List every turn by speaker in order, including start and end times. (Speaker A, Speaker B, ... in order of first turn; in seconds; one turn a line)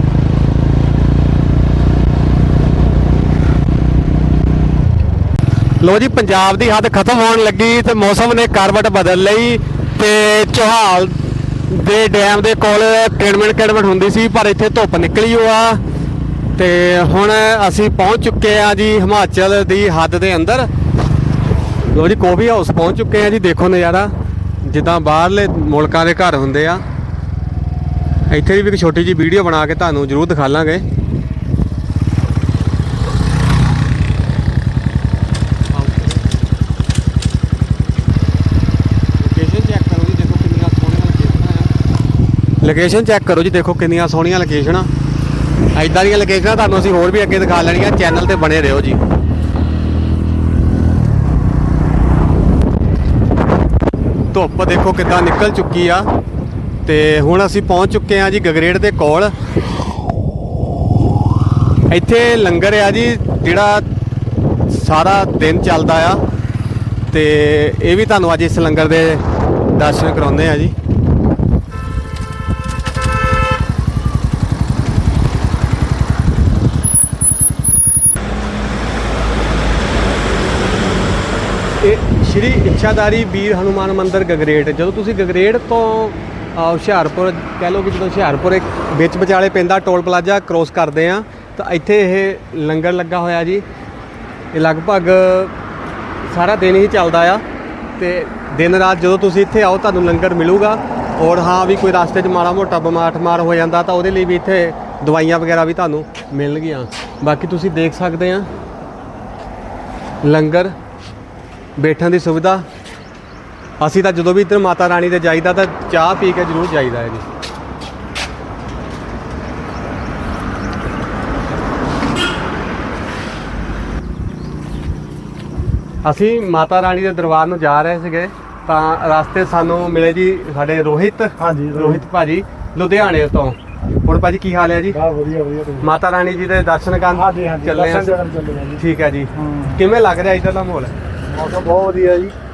Speaker A: 5.8-15.8
Speaker A: 16.6-20.7
Speaker A: 21.9-24.1
Speaker A: 24.6-26.8
Speaker A: 28.3-30.8
Speaker A: 35.7-36.3
Speaker A: 39.2-41.7
Speaker A: 42.6-44.9
Speaker A: 45.8-49.0
Speaker A: 54.3-56.1
Speaker A: 56.9-59.3
Speaker A: 61.9-63.9
Speaker A: 64.7-66.2
Speaker A: 67.1-70.7
Speaker A: 81.8-93.7
Speaker A: 94.5-95.5
Speaker A: 96.3-97.4
Speaker A: 98.0-108.5
Speaker A: 110.2-110.7
Speaker A: 111.8-112.6
Speaker A: 113.8-117.2
Speaker A: 126.0-135.0
Speaker B: 131.4-132.0
Speaker B: 134.9-135.9
Speaker A: 135.8-138.2
Speaker B: 137.1-138.8
Speaker A: 138.8-140.9
Speaker B: 139.3-139.8
Speaker B: 141.3-142.3